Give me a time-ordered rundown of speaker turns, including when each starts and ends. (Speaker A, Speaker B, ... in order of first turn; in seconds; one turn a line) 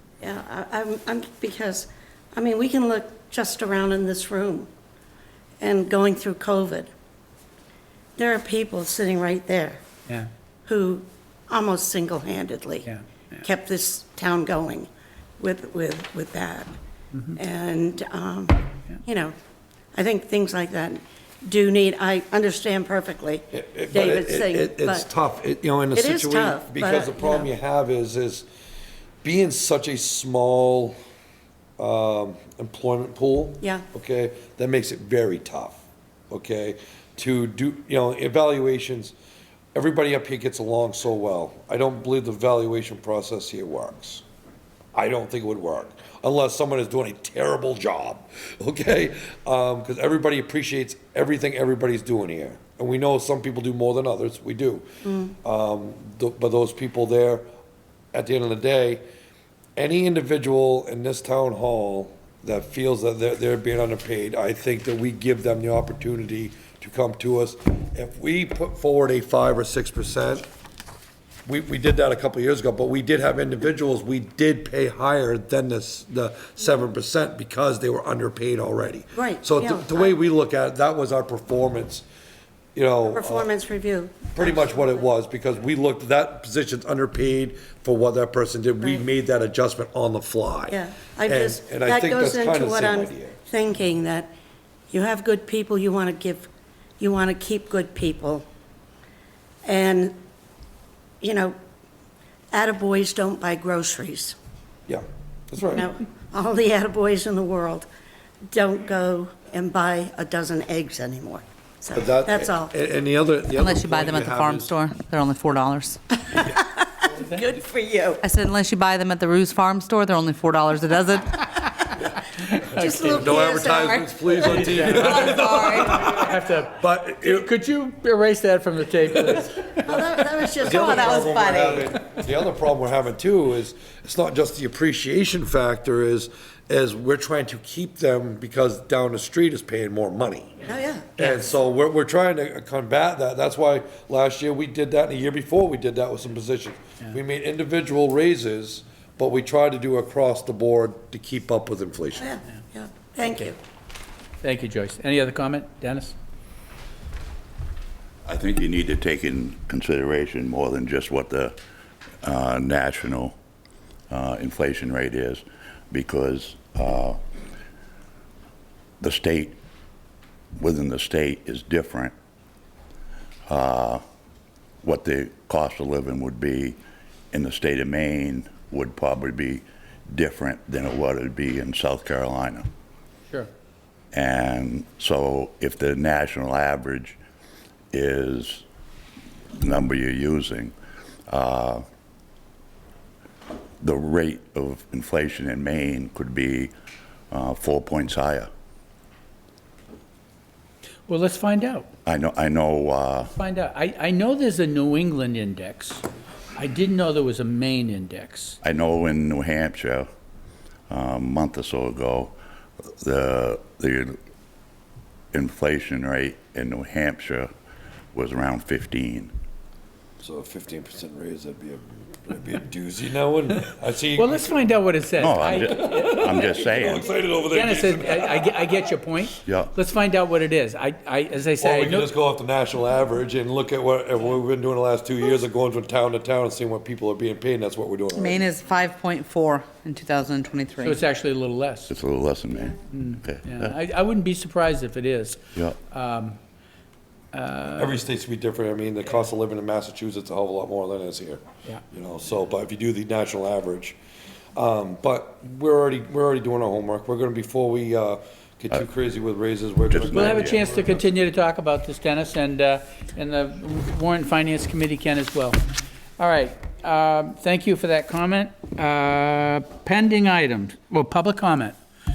Speaker A: 0.2-4.7
Speaker A: 5.6-6.9
Speaker A: 8.2-9.8
Speaker A: 10.7-14.9
Speaker A: 15.4-16.7
Speaker A: 17.3-19.3
Speaker A: 19.9-25.1
Speaker B: 23.5-28.5
Speaker A: 25.9-27.5
Speaker B: 29.2-30.9
Speaker B: 31.8-39.1
Speaker B: 39.7-44.2
Speaker B: 44.9-57.5
Speaker A: 55.0-55.3
Speaker B: 58.1-59.0
Speaker B: 59.8-70.4
Speaker B: 71.5-82.0
Speaker A: 79.1-80.1
Speaker B: 82.7-83.5
Speaker A: 83.1-85.0
Speaker B: 84.3-93.4
Speaker A: 90.7-94.3
Speaker A: 94.9-98.4
Speaker A: 99.6-100.2
Speaker A: 101.2-101.5
Speaker A: 102.5-104.3
Speaker B: 104.9-105.9
Speaker A: 105.7-107.9
Speaker A: 108.5-112.7
Speaker B: 111.9-114.7
Speaker C: 113.5-116.0
Speaker A: 116.3-116.6
Speaker A: 117.3-118.2
Speaker C: 118.2-121.4
Speaker D: 122.6-123.2
Speaker A: 122.7-125.9
Speaker B: 123.0-127.5
Speaker D: 124.7-130.0
Speaker C: 125.3-125.9
Speaker A: 129.8-131.9
Speaker B: 130.6-140.6
Speaker C: 130.8-131.8
Speaker A: 140.7-141.1
Speaker B: 141.2-152.3
Speaker A: 152.2-153.6
Speaker D: 153.2-153.5
Speaker D: 154.4-156.2
Speaker E: 158.2-161.6
Speaker E: 162.2-163.3
Speaker E: 164.1-167.2
Speaker E: 169.0-169.6
Speaker E: 170.6-172.1
Speaker E: 173.5-174.0
Speaker E: 174.8-176.8
Speaker E: 177.3-182.7
Speaker E: 184.1-187.2
Speaker E: 187.9-188.6
Speaker E: 189.6-190.7
Speaker E: 191.3-191.8
Speaker E: 193.8-196.7
Speaker E: 197.3-198.5
Speaker D: 201.1-201.9
Speaker E: 202.1-203.3
Speaker D: 203.2-206.0
Speaker D: 206.6-208.6
Speaker E: 208.6-210.1
Speaker E: 210.9-212.3
Speaker E: 213.0-214.2
Speaker E: 215.3-217.5
Speaker E: 218.1-219.3
Speaker B: 220.2-224.5
Speaker D: 224.2-226.4
Speaker E: 225.2-227.0
Speaker B: 225.8-228.8
Speaker D: 227.4-232.1
Speaker E: 229.4-229.7
Speaker B: 231.6-238.4
Speaker C: 238.1-241.0
Speaker D: 240.8-241.9
Speaker E: 241.9-243.7
Speaker D: 242.9-246.4
Speaker D: 247.3-248.0
Speaker B: 247.8-254.0
Speaker B: 254.5-261.0
Speaker E: 259.9-260.6
Speaker D: 260.1-265.6
Speaker D: 266.2-271.8